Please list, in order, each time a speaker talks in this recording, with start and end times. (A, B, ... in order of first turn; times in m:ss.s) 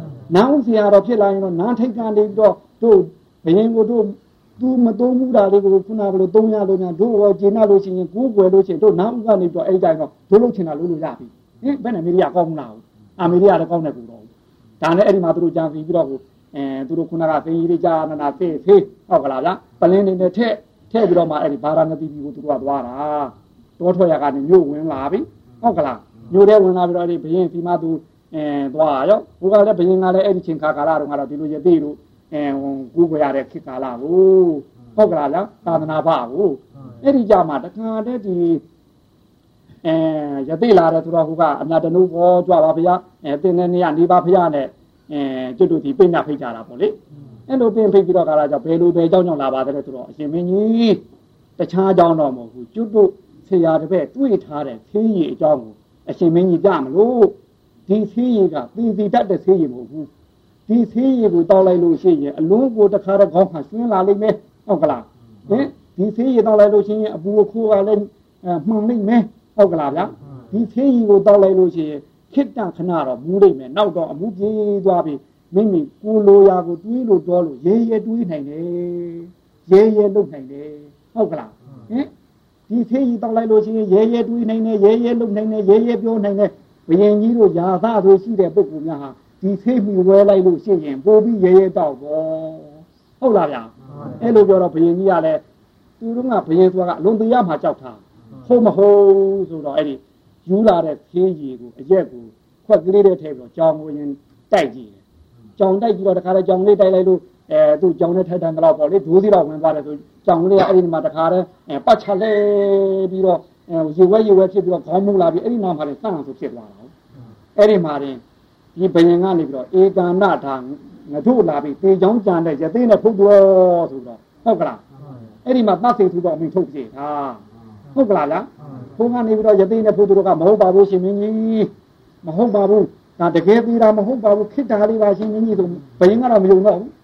0:00.3-0:14.3 A
0:14.8-0:38.6 A
0:39.8-0:47.0 A
0:47.5-0:51.0 A
0:51.6-0:57.4 A
0:57.9-1:00.1 A
1:00.7-1:22.1 A
1:22.7-1:35.4 A
1:36.0-1:45.0 A
1:45.6-1:56.9 A
1:57.6-1:58.2 A
1:58.8-2:04.8 A
2:05.4-2:07.4 A
2:08.0-2:11.7 A
2:12.2-2:16.9 A